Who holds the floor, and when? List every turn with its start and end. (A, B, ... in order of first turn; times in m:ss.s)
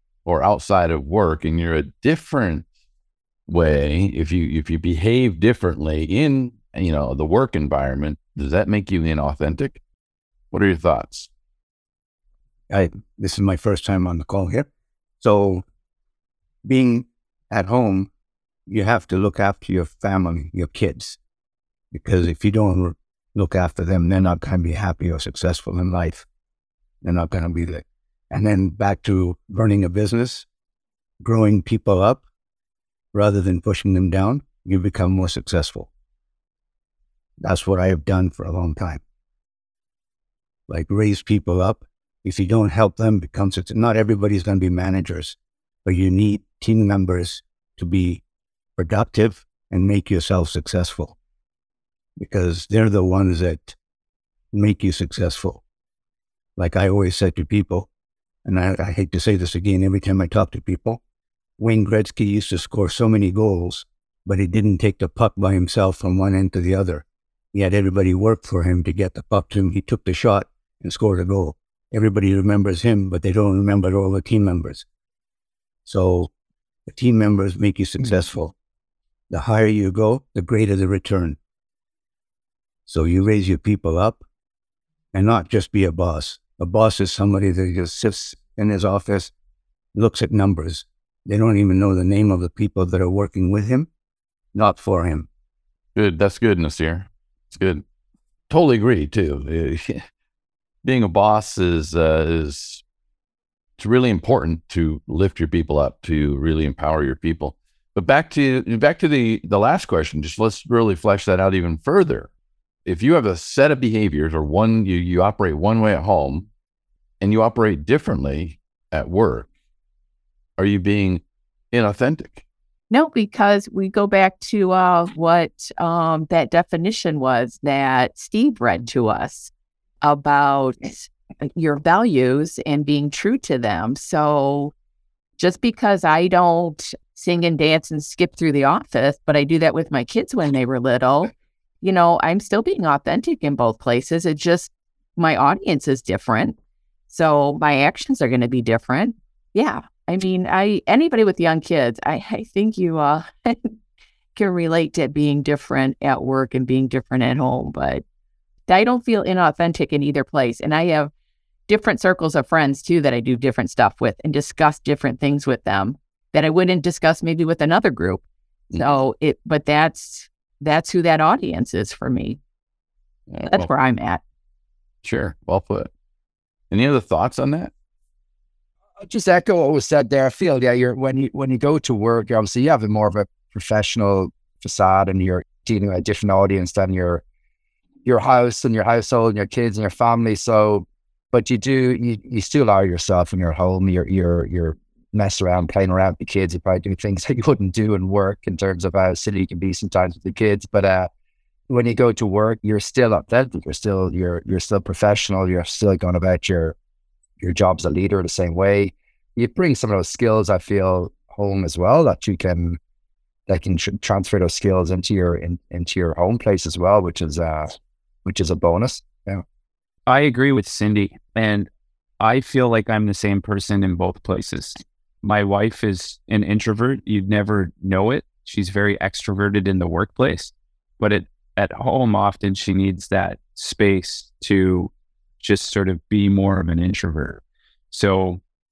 0:00.2-0:02.6 A
0:03.5-0:09.8 A
0:10.5-0:11.3 A
0:12.7-0:14.7 B
0:15.2-0:15.6 B
0:16.6-0:18.1 B
0:18.7-0:21.2 B
0:21.9-0:26.2 B
0:27.0-0:30.4 B
0:31.2-0:32.2 B
0:33.1-0:35.9 B
0:37.4-0:39.0 B
0:40.7-0:48.2 B
0:48.8-0:51.2 B
0:52.2-0:53.8 B
0:54.5-0:55.6 B
0:56.6-0:57.9 B
0:58.4-1:01.0 B
1:01.6-1:14.8 B
1:15.8-1:16.3 B
1:16.9-1:18.5 B
1:19.3-1:21.4 B
1:22.9-1:24.2 B
1:25.1-1:29.3 B
1:29.9-1:33.9 B
1:34.5-1:35.3 B
1:35.9-1:37.8 A
1:38.5-1:40.0 A
1:40.8-1:42.8 A
1:43.8-1:52.3 A
1:52.8-1:56.5 A
1:57.2-1:59.5 A
2:00.6-2:02.4 A
2:02.9-2:09.5 C
2:10.0-2:14.7 C
2:15.4-2:26.6 C
2:27.1-2:33.7 C
2:34.4-2:38.0 C
2:38.7-2:41.1 C
2:41.7-2:48.2 C
2:48.8-2:52.4 C
2:53.3-2:53.7 A
2:53.4-2:54.2 C
2:55.0-2:55.9 A
2:56.7-2:57.7 A
2:59.0-3:07.2 D
3:08.0-3:21.1 D
3:21.7-3:26.8 D
3:27.4-3:32.8 D
3:33.5-3:39.4 D
3:40.1-3:41.7 E
3:42.2-3:58.4 E